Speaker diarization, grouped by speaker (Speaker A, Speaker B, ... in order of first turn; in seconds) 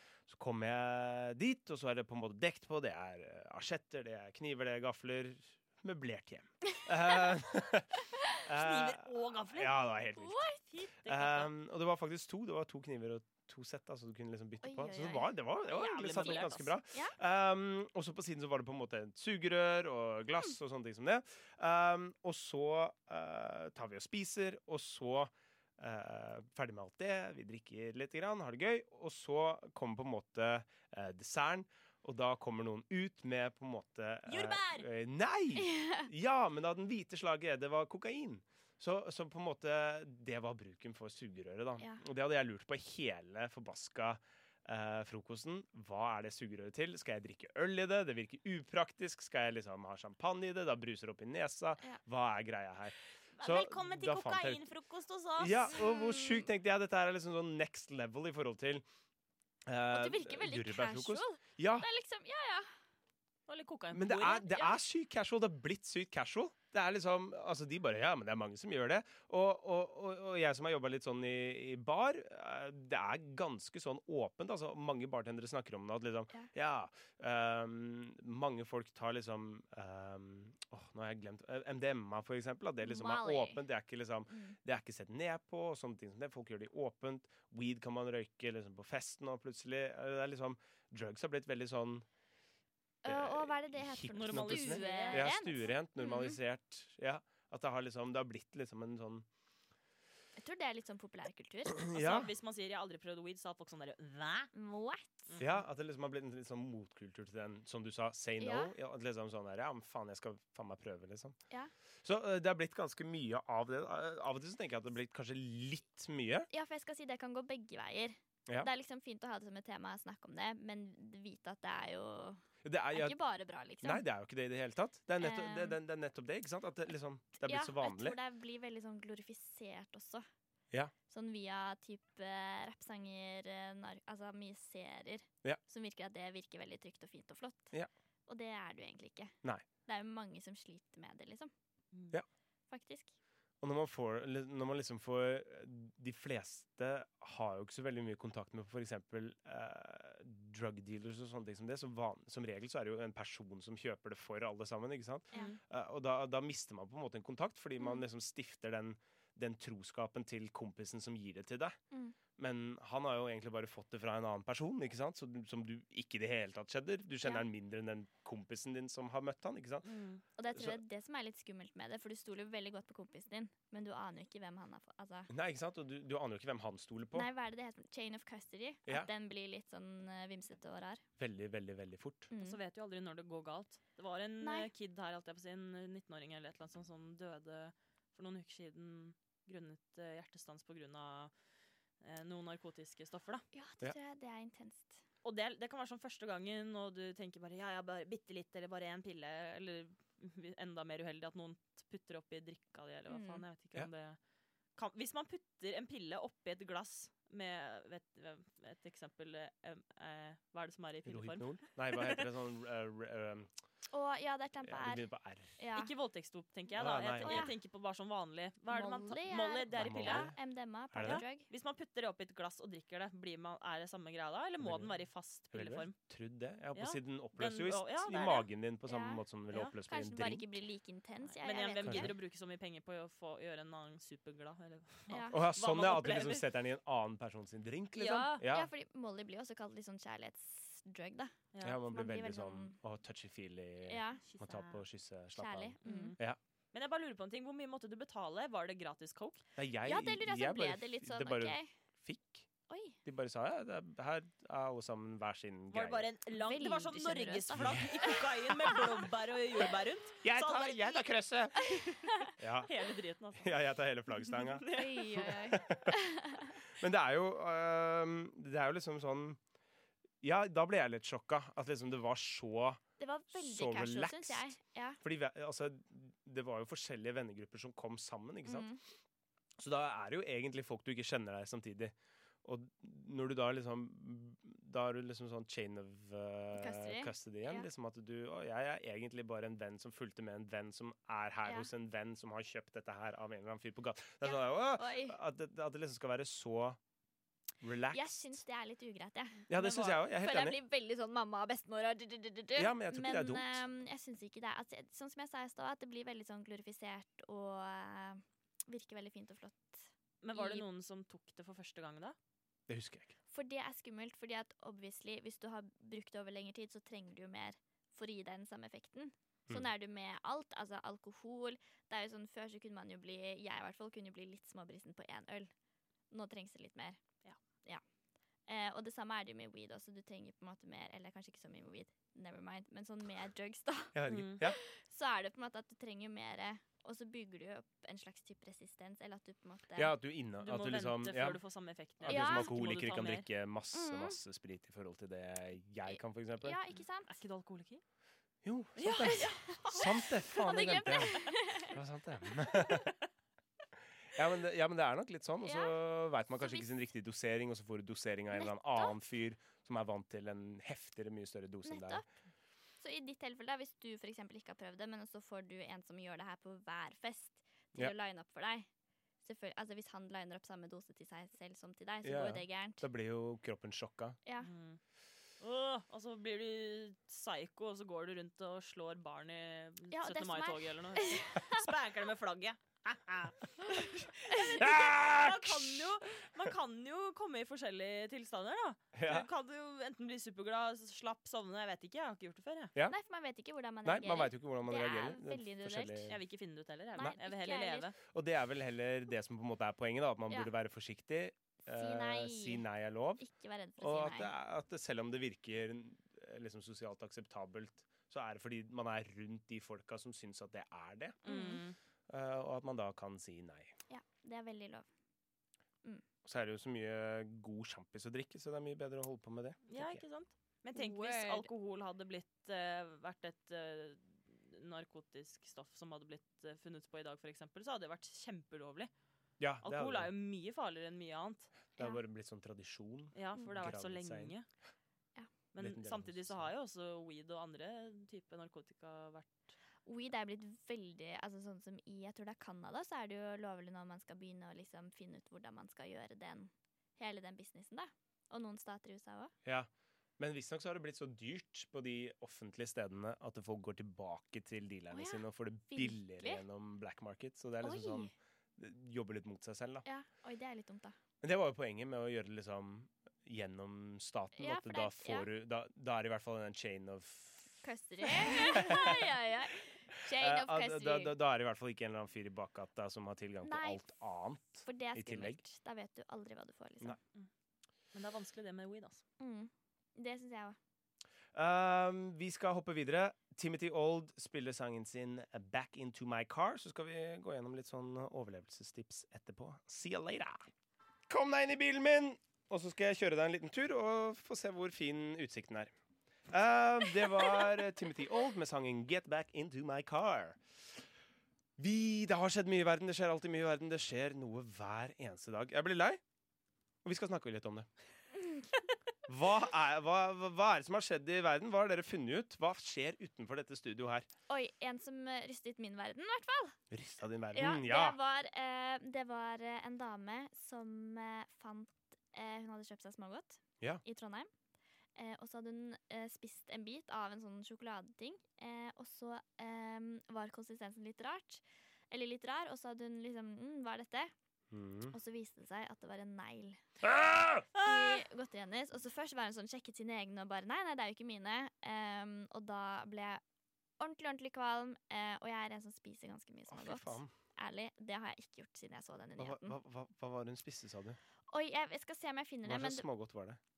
Speaker A: 0.3-10.5, 11.1-54.6, 55.4-58.8, 59.6-61.9, 63.9-92.0, 93.0-99.2, 101.8-102.3, 105.4-111.4, 112.0-116.5, 122.6-123.2, 123.8-128.2, 143.6-161.8, 162.4-169.9, 170.5-170.8, 175.3-177.3, 181.2-182.3, 211.1-213.5, 214.6-215.6, 216.8-217.5, 219.7-220.3, 220.9-221.2, 224.6-225.0, 225.5-230.5, 231.8-232.1, 235.3-238.7, 241.6-246.4, 249.6-252.5, 253.0-256.1, 257.6-258.2, 260.2-261.6, 262.4-262.7, 263.4-265.9, 266.7-269.4, 270.2-272.8, 273.3-278.7, 279.6-296.8, 297.6-298.4, 299.5-300.6, 302.6-303.6, 312.7-313.1, 333.9-334.6, 339.8-341.4, 342.0-346.6, 348.4-352.9, 354.1-362.0, 372.0-374.2, 384.6-385.8, 388.9-389.3, 393.8-396.2, 398.1-403.2, 403.8-411.2, 412.1-413.8, 416.2-420.0, 429.4-430.1, 431.8-434.3, 435.6-436.5, 449.4-459.8, 461.2-467.6, 468.1-469.1, 469.9-475.4, 481.3-490.5, 491.1-495.7, 496.3-500.4, 501.6-506.0, 506.8-507.7, 509.1-514.1, 516.7-518.0, 534.5-534.9, 536.8-537.5, 546.5-547.1, 549.2-551.0, 552.4-553.4
Speaker B: 8.6-9.7, 10.6-11.5, 15.7-16.8, 34.3-34.9, 53.3-55.7, 63.5-64.8, 94.1-95.3, 101.9-104.5, 105.3-105.6, 169.8-170.2, 182.4-191.3, 192.0-193.4, 195.2-204.2, 204.8-212.2, 215.7-220.3, 221.0-225.9, 226.7-228.5, 231.3-236.4, 237.9-238.4, 241.5-241.8, 244.3-244.8, 245.8-246.2, 246.7-249.4, 255.7-263.5, 264.4-265.3, 310.2-312.1, 334.1-334.4, 340.4-343.3, 347.1-347.8, 348.8-349.6, 374.4-374.8, 375.4-392.7, 396.1-397.9, 411.2-411.8, 419.7-428.9, 429.6-431.5, 433.1-434.4, 435.5-439.5, 477.9-479.0, 537.5-538.0
Speaker C: 10.2-10.6, 14.6-15.3, 16.0-17.1, 35.6-36.1, 55.7-56.5, 59.9-62.7, 82.8-83.6, 84.3-84.5, 93.0-96.4, 100.4-101.9, 104.5-105.3, 108.4-108.7, 116.5-124.0, 125.2-125.8, 127.4-130.2, 131.1-137.7, 138.3-139.3, 139.8-141.5, 142.7-143.1, 155.3-155.6, 161.9-162.2, 170.4-175.3, 177.1-181.0, 182.3-182.6, 184.4-184.7, 193.5-195.0, 203.1-203.4, 213.9-215.1, 215.6-215.9, 217.2-217.5, 218.7-221.5, 228.9-229.2, 229.8-232.1, 235.1-235.4, 238.4-242.8, 243.9-244.2, 245.3-246.2, 249.8-251.7, 252.7-253.0, 256.3-259.1, 261.6-262.3, 264.7-266.5, 273.0-275.0, 278.4-278.8, 286.5-287.7, 294.2-295.2, 297.9-310.6, 313.3-325.5, 326.1-327.0, 328.5-339.9, 342.1-342.5, 343.7-344.2, 345.9-347.1, 349.0-351.8, 355.4-355.7, 356.4-356.7, 358.3-358.9, 361.6-362.0, 362.8-368.7, 369.2-372.8, 374.2-374.5, 379.9-381.7, 384.3-384.6, 392.9-396.1, 396.9-397.9, 401.6-402.6, 403.2-404.3, 411.2-411.6, 413.9-414.9, 420.7-421.5, 439.8-449.3, 454.9-456.4, 457.6-458.1, 459.8-460.9, 464.4-465.3, 467.6-471.1, 473.4-473.9, 474.6-477.0, 479.2-480.6, 514.3-516.6, 517.3-524.3, 524.9-534.1, 534.9-536.6, 537.6-543.2, 543.8-549.6, 551.3-552.9